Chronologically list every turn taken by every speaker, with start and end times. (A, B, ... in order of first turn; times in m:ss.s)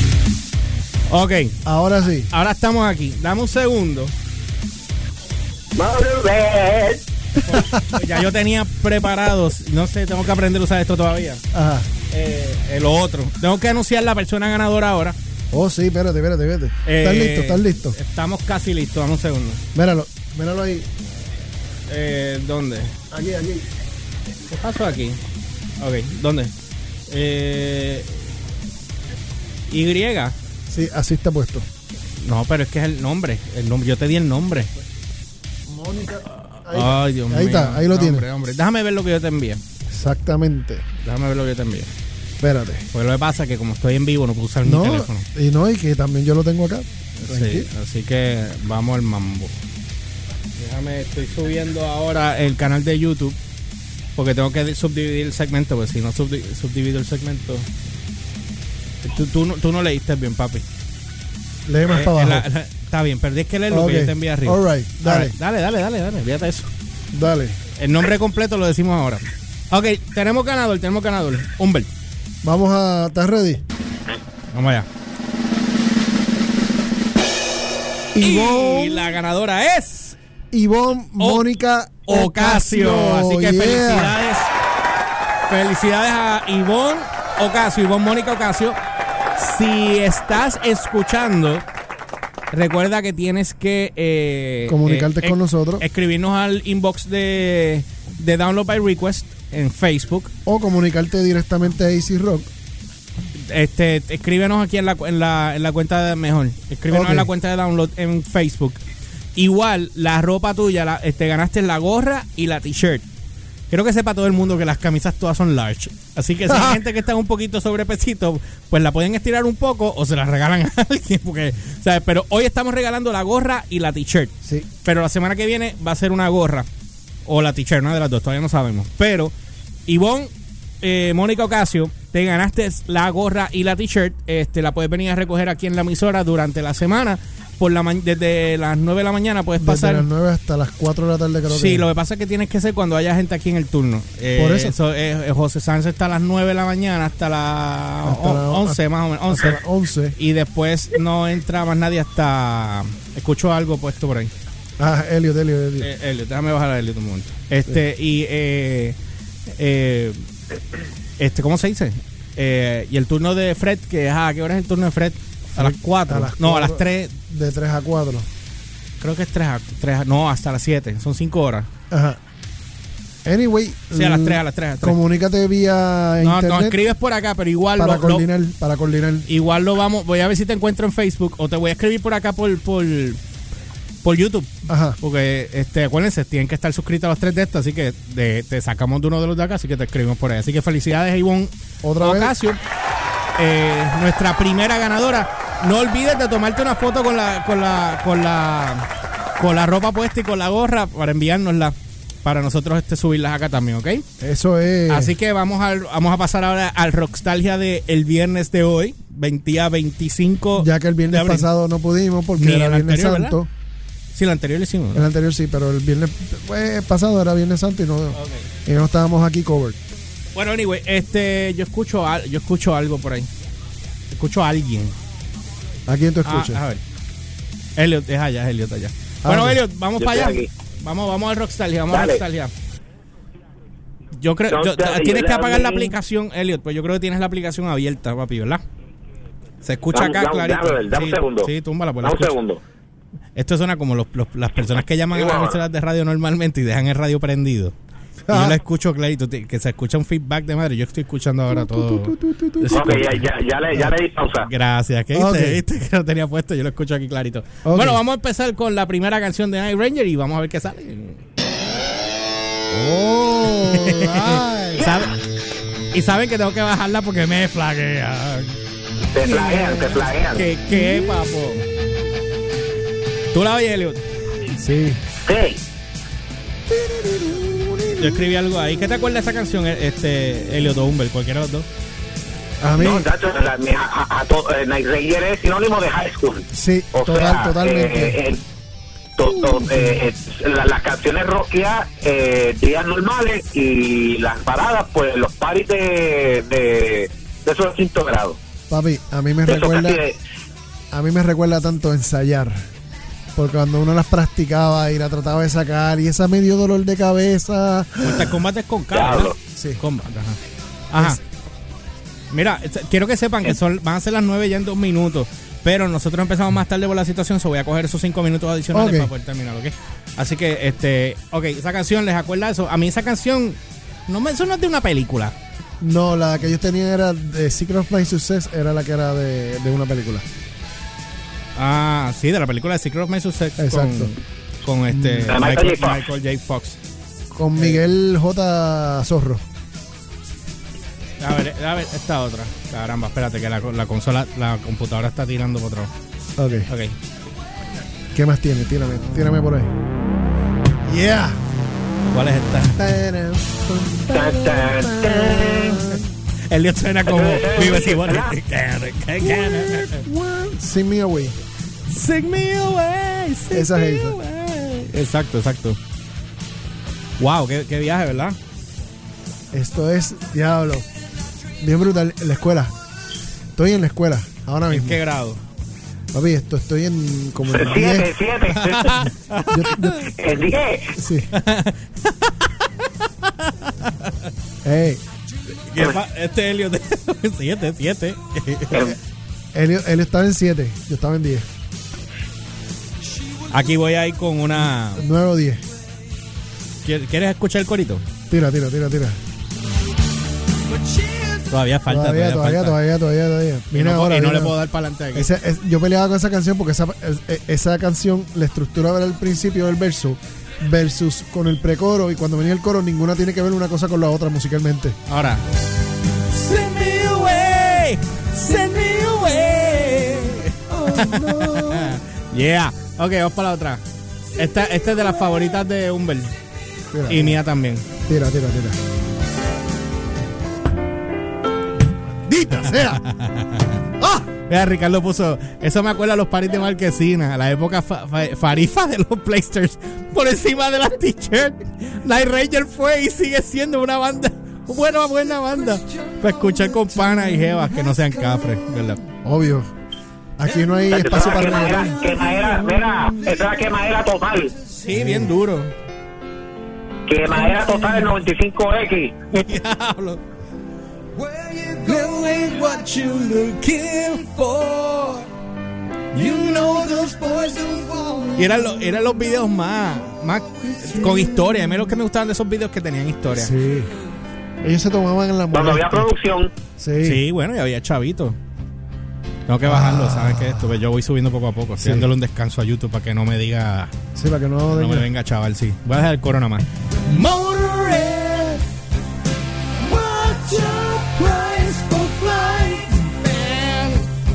0:01.1-0:01.6 A
0:01.6-0:02.3 B
0:02.3-0:04.1 A
0:05.8-0:07.0 C
0:07.4-0:11.4 A
0:07.4-0:08.0 B
0:11.5-0:11.9 B
0:12.1-0:15.2 A
0:15.5-0:18.0 B
0:16.8-0:19.6 A
0:19.7-0:20.9 B
0:21.9-0:23.0 A
0:23.1-0:23.6 B
0:24.5-0:25.2 A
0:25.8-0:26.5 A
0:27.1-0:28.3 A
0:29.7-0:30.4 A
0:30.7-0:31.6 B
0:32.2-0:34.7 A
0:35.7-0:38.3 B
0:36.3-0:39.6 A
0:39.9-0:40.8 B
0:41.0-0:41.9 A
0:42.4-0:42.8 B
0:42.9-0:45.3 A
0:44.6-0:47.7 B
0:47.2-0:49.6 A
0:50.6-0:53.4 A
0:54.2-0:57.7 A
0:59.0-1:00.6 A
1:01.6-1:02.4 B
1:01.8-1:06.7 A
1:03.7-1:05.3 B
1:07.1-1:07.6 B
1:07.8-1:11.9 A
1:12.4-1:13.6 B
1:14.5-1:14.9 A
1:18.1-1:19.2 B
1:18.2-1:20.2 A
1:20.5-1:24.2 B
1:21.2-1:21.5 A
1:22.0-1:24.5 A
1:25.5-1:28.8 A
1:29.4-1:31.6 A
1:32.5-1:40.3 A
1:34.6-1:35.8 B
1:40.4-1:42.5 B
1:43.5-1:48.8 A
1:46.9-1:47.3 B
1:49.3-1:53.0 A
1:53.7-2:06.7 A
1:56.4-1:56.8 B
2:07.2-2:09.3 A
2:09.9-2:20.1 A
2:19.6-2:21.9 B
2:21.4-2:34.3 A
2:24.3-2:24.8 B
2:28.0-2:30.2 B
2:34.8-2:35.9 B
2:35.8-2:39.0 A
2:39.5-2:40.2 A
2:41.2-2:47.2 A
2:45.6-2:48.3 B
2:49.0-2:51.7 A
2:51.9-2:52.2 B
2:53.2-2:56.8 B
2:53.9-2:55.0 A
2:56.2-2:58.3 A
2:57.8-2:59.3 B
2:59.2-3:03.2 A
3:04.0-3:12.6 A
3:04.7-3:05.0 B
3:11.8-3:12.3 B
3:13.4-3:24.0 A
3:24.2-3:25.2 B
3:24.9-3:31.5 A
3:30.5-3:33.5 B
3:32.3-3:33.4 A
3:34.1-3:35.1 A
3:34.9-3:39.8 B
3:38.1-3:38.5 A
3:40.3-3:43.3 A
3:44.1-3:45.0 A
3:45.9-3:46.6 B
3:46.2-3:46.8 A
3:47.8-3:52.5 A
3:49.2-3:49.6 B
3:50.0-3:50.5 C
3:51.9-3:52.2 C
3:54.2-3:58.6 A
3:54.5-3:55.9 C
3:59.6-4:02.3 A
3:59.9-4:01.5 C
4:02.0-4:02.6 C
4:03.3-4:07.7 A
4:05.1-4:05.6 C
4:08.3-4:08.6 B
4:08.3-4:13.2 A
4:11.5-4:13.0 B
4:12.7-4:14.5 C
4:14.4-4:21.2 A
4:15.1-4:15.6 B
4:17.6-4:18.0 B
4:22.7-4:24.9 B
4:23.5-4:25.2 A
4:24.8-4:25.0 C
4:25.9-4:28.6 A
4:29.1-4:30.4 C
4:29.2-4:31.7 A
4:30.7-4:31.3 B
4:33.3-4:34.0 A
4:34.5-4:35.0 B
4:35.2-4:35.6 C
4:36.7-4:38.3 B
4:37.9-4:41.7 A
4:42.6-4:43.1 B
4:42.8-4:48.4 C
4:46.5-4:48.2 B
4:49.2-4:58.4 C
4:49.2-4:50.0 B
4:58.7-5:00.0 B
4:59.5-5:00.2 C
5:00.9-5:02.6 B
5:03.4-5:08.4 B
5:08.0-5:10.4 A
5:08.9-5:09.4 C
5:09.5-5:09.8 B
5:10.9-5:11.2 A
5:12.3-5:25.4 A
5:18.7-5:19.1 B
5:25.8-5:30.2 B
5:31.6-5:36.8 A
5:33.6-5:34.1 B
5:34.9-5:35.4 B
5:35.3-5:36.0 C
5:37.3-5:39.4 B
5:37.5-5:37.9 A
5:41.2-5:45.9 A
5:46.4-5:46.7 B
5:46.7-5:47.0 A
5:48.1-5:49.7 B
5:50.8-5:51.4 B
5:52.1-5:52.8 A
5:52.8-5:56.1 B
5:54.1-5:55.8 C
5:55.4-6:00.0 A
5:57.0-5:58.3 C
5:59.2-6:01.4 B
6:01.9-6:05.8 A
6:03.5-6:04.2 B
6:07.2-6:08.4 A
6:09.5-6:10.8 B
6:11.6-6:12.7 B
6:13.6-6:15.0 B
6:14.7-6:15.4 A
6:16.1-6:18.1 B
6:17.5-6:19.0 C
6:18.5-6:20.1 A
6:19.1-6:20.0 B
6:20.1-6:20.9 C
6:20.9-6:21.3 B
6:21.3-6:24.1 A
6:24.6-6:25.0 B
6:25.7-6:28.9 A
6:28.7-6:29.0 C
6:29.5-6:31.5 B
6:33.5-6:35.0 A
6:34.6-6:35.6 B
6:36.8-6:38.0 A
6:38.3-6:39.2 B
6:41.3-6:42.8 A
6:41.9-6:44.6 B
6:43.7-6:45.3 A
6:45.1-6:55.0 B
6:55.1-6:55.4 A
6:56.3-7:03.8 A
7:00.7-7:02.0 B
7:04.4-7:06.3 A
7:06.9-7:07.4 B
7:07.1-7:07.9 A
7:08.0-7:08.8 B
7:12.1-7:13.0 B
7:12.7-7:13.8 A
7:14.0-7:14.3 B
7:14.5-7:29.0 A
7:29.2-7:29.7 B
7:30.4-7:32.1 B
7:30.9-7:34.5 C
7:31.2-7:32.0 A
7:34.8-7:35.7 A
7:34.9-7:35.3 B
7:37.0-7:39.3 C
7:39.4-7:40.2 A
7:41.6-7:45.2 A
7:46.1-7:53.5 A
7:53.3-7:53.9 B
7:54.6-7:56.1 B
7:55.5-7:56.5 C
7:56.8-7:57.2 B
7:57.0-7:58.4 A
7:59.5-8:03.9 A
7:59.6-8:00.8 B
8:01.8-8:02.1 B
8:04.2-8:05.1 B
8:04.7-8:08.6 A
8:09.8-8:14.1 A